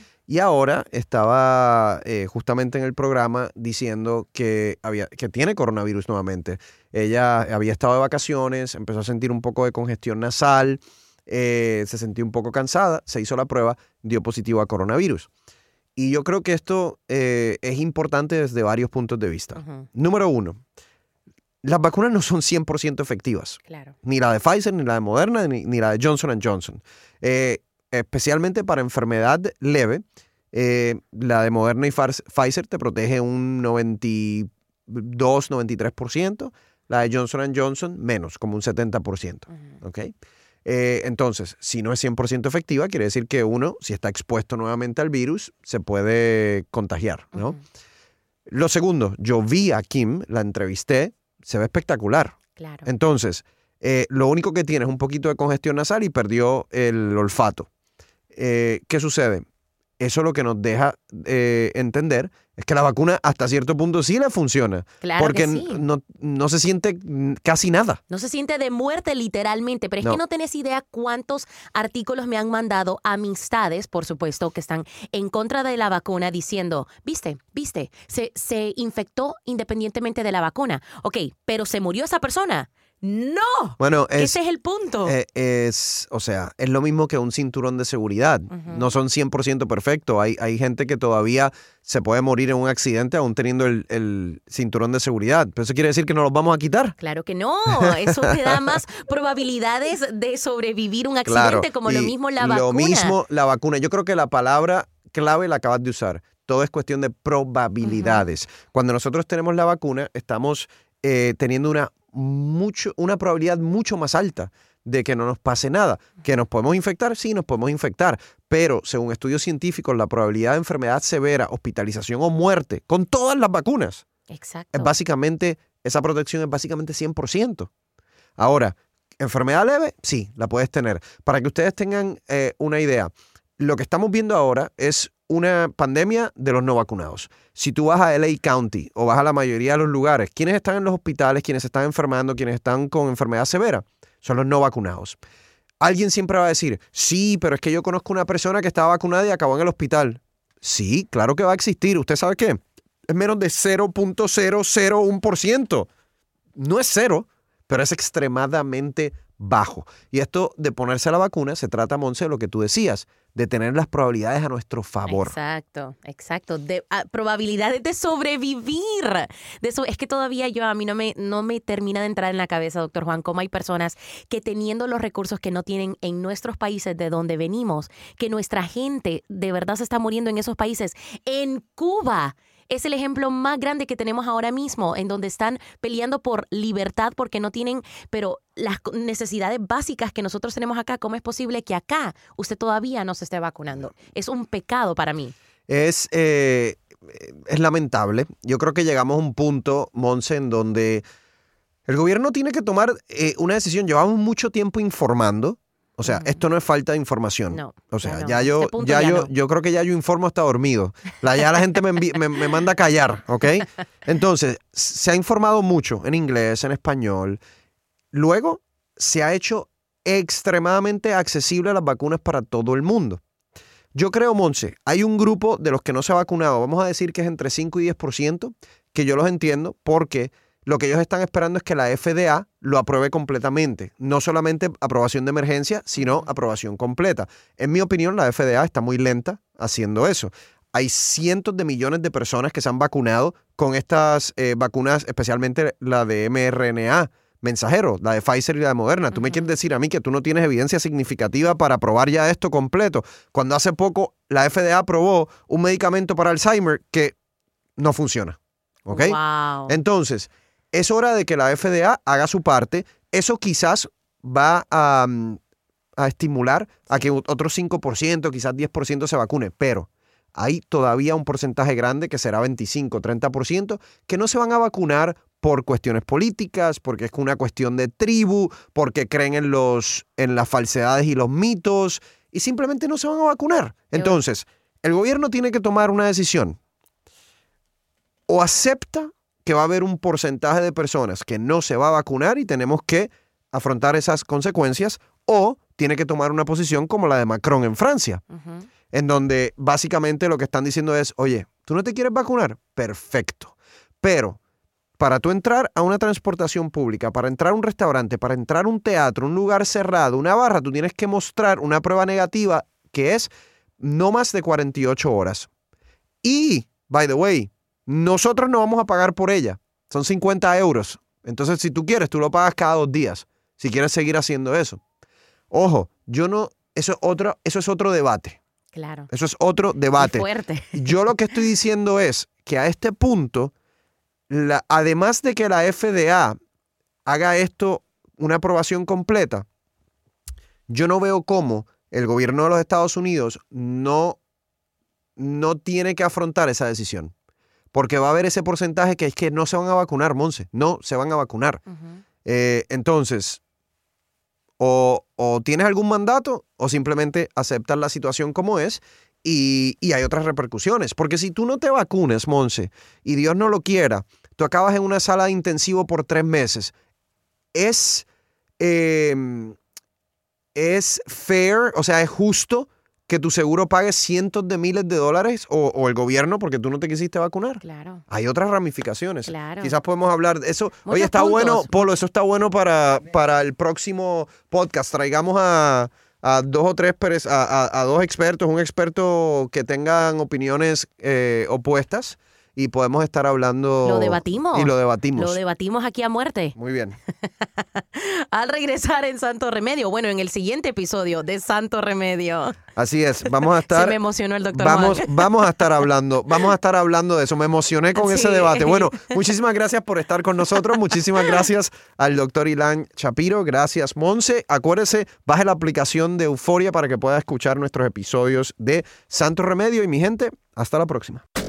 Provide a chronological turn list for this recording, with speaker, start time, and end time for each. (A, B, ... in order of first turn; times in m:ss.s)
0:00.3-0:15.3 A
0:16.0-0:20.6 A
0:19.6-0:19.9 B
0:21.6-0:40.1 A
0:23.7-0:23.9 B
0:40.6-0:47.6 A
0:47.3-0:47.6 B
0:48.5-0:57.7 A
0:52.6-0:52.9 B
0:58.3-0:59.4 A
1:00.0-1:08.0 A
1:05.0-1:05.8 B
1:08.1-1:25.1 B
1:23.8-1:24.4 A
1:25.0-1:37.0 A
1:28.5-1:28.8 B
1:37.0-1:43.1 B
1:37.8-1:38.8 A
1:41.2-2:04.0 A
1:47.8-1:48.2 B
2:04.3-2:04.9 B
2:04.7-2:07.7 A
2:08.4-2:25.2 A
2:25.8-2:35.9 A
2:36.6-2:45.3 A
2:45.1-3:15.3 B
3:15.7-3:21.0 A
3:21.9-3:37.4 A
3:26.0-3:26.4 B
3:27.5-3:29.3 B
3:38.1-3:43.2 A
3:43.9-4:17.1 A
3:56.0-3:56.2 B
4:09.1-4:09.5 B
4:17.8-4:25.4 A
4:18.9-4:19.8 B
4:26.0-4:46.6 A
4:48.3-4:58.2 A
4:58.3-4:58.7 B
4:58.9-5:04.4 A
5:05.0-5:15.5 A
5:16.2-5:24.8 A
5:25.5-5:28.4 A
5:28.7-5:29.1 B
5:29.1-5:33.5 A
5:30.0-5:30.9 B
5:34.3-5:36.4 A
5:37.0-5:39.4 A
5:40.7-5:44.2 A
5:45.2-5:47.1 A
5:47.7-5:51.6 A
5:51.7-5:52.0 B
5:52.2-5:53.4 A
5:54.6-6:06.7 A
6:07.5-6:08.0 A
6:08.6-6:09.6 A
6:10.5-6:35.4 A
6:17.6-6:18.0 B
6:19.3-6:19.7 B
6:20.8-6:21.7 B
6:33.8-6:36.5 B
6:36.6-6:37.0 A
6:37.2-6:42.6 B
6:42.7-6:44.0 A
6:43.7-6:45.3 B
6:44.5-7:01.2 A
6:48.0-6:49.2 B